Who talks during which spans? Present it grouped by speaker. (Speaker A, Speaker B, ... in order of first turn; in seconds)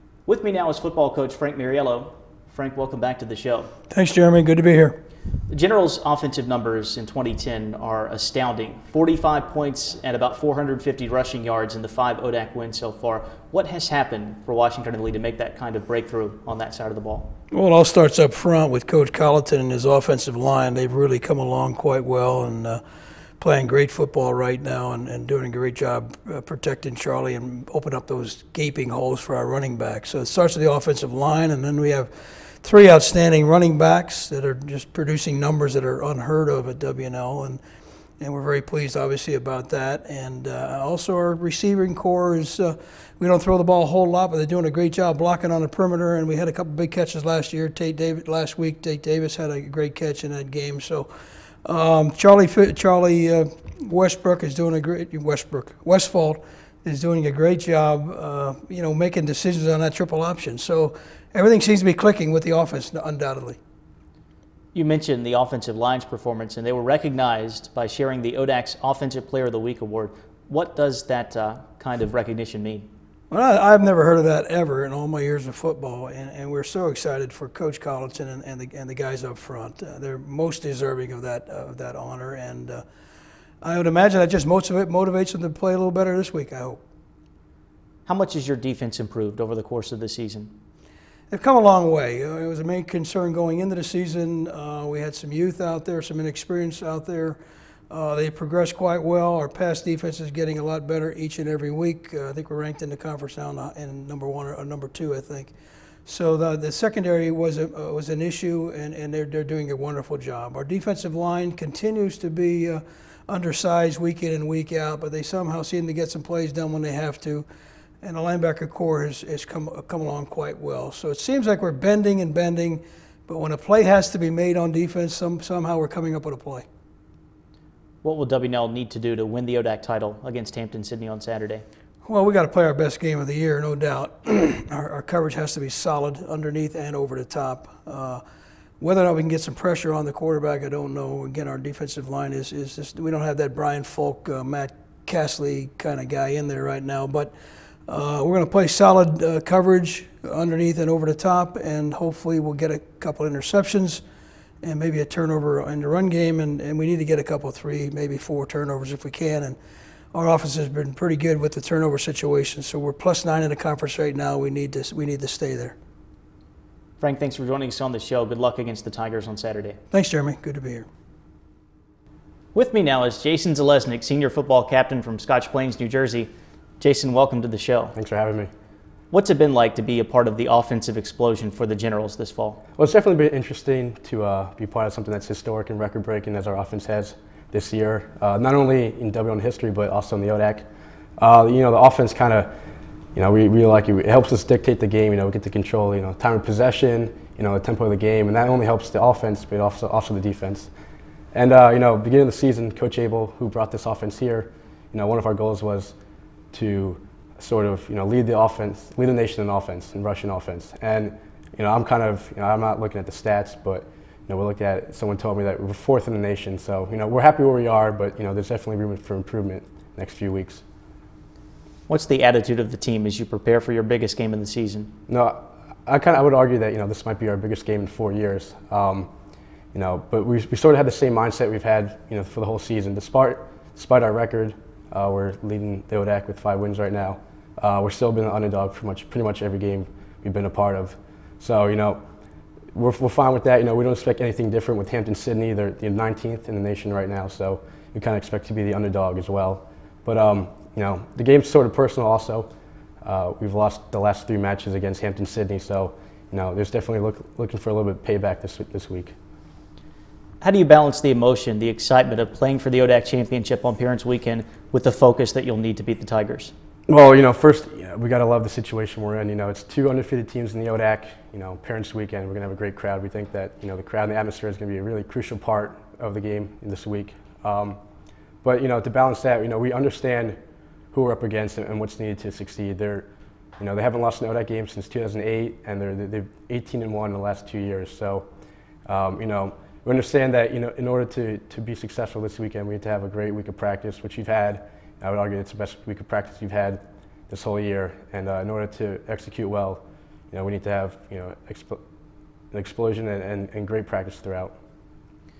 Speaker A: 0.2-3.7, 5.5-17.3, 64.7-72.9, 88.0-90.5, 128.0-131.6, 167.0-169.8, 172.5-177.9, 179.1-182.6, 221.9-224.9, 260.4-266.5
Speaker B: 3.9-5.0, 17.5-22.8, 23.4-32.1, 32.6-37.6, 38.2-51.1, 51.6-63.6, 73.3-82.8, 83.6-86.8, 91.3-97.4, 97.9-105.5, 106.0-117.5, 118.0-126.7, 132.1-138.2, 138.8-147.3, 147.9-154.0, 154.6-159.6, 160.1-165.7, 169.9-170.8
Speaker C: 177.9-178.5, 182.8-190.6, 191.2-192.5, 193.1-200.7, 201.3-205.9, 206.5-220.6, 225.1-229.1, 229.7-242.0, 242.7-252.5, 253.0-259.1, 266.9-277.8, 278.4-280.4, 280.9-288.2, 288.9-301.8, 302.5-304.5